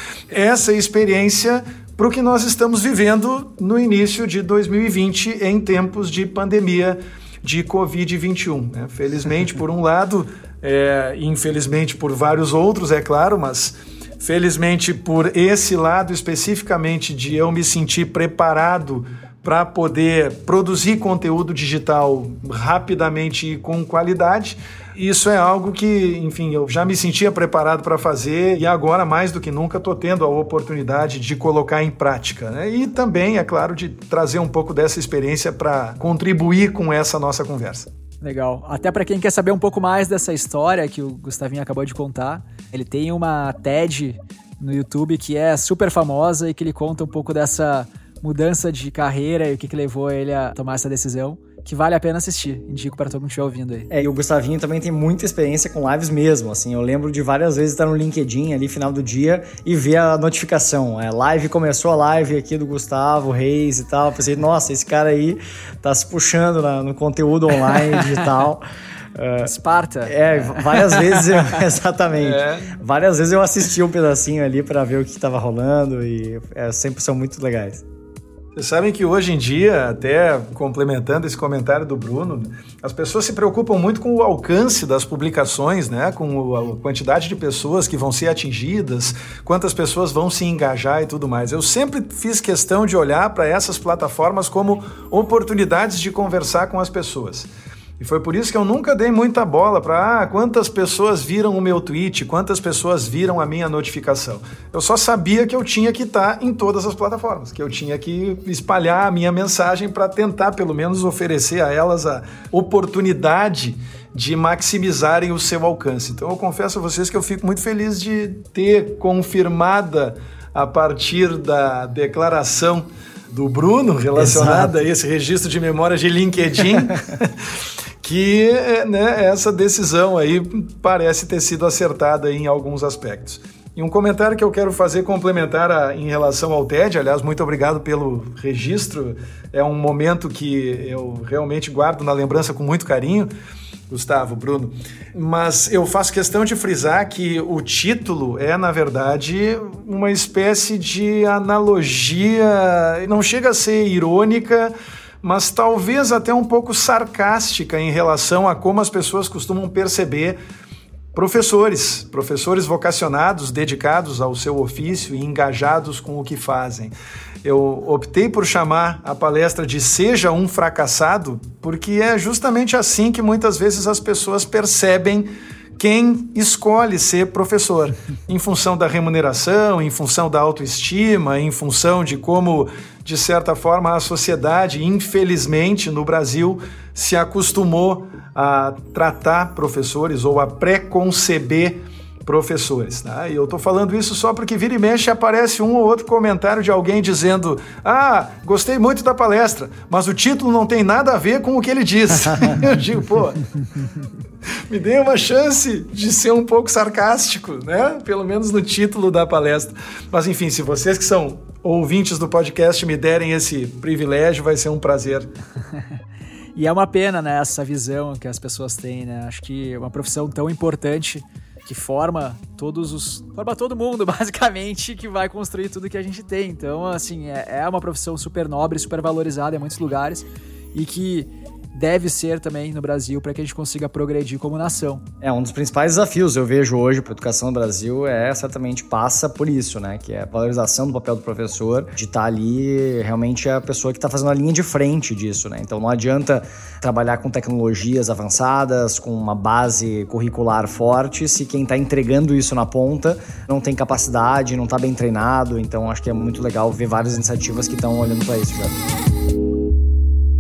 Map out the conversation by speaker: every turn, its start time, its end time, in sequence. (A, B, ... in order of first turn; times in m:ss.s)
0:00.3-0:37.9 A
0:38.2-0:53.9 B
0:53.9-1:08.6 C
1:07.7-1:08.1 B
1:09.2-1:17.8 C
1:09.4-1:11.6 B
1:12.2-1:12.7 A
1:18.6-1:37.5 A
1:38.0-2:07.3 A
2:04.2-2:04.7 C
2:08.0-2:23.3 A
2:23.9-2:40.4 A
2:41.1-2:46.9 A
2:47.4-3:23.5 A
3:22.2-3:22.5 C
3:24.7-3:35.3 A
3:36.6-3:55.0 B
3:55.2-4:18.8 C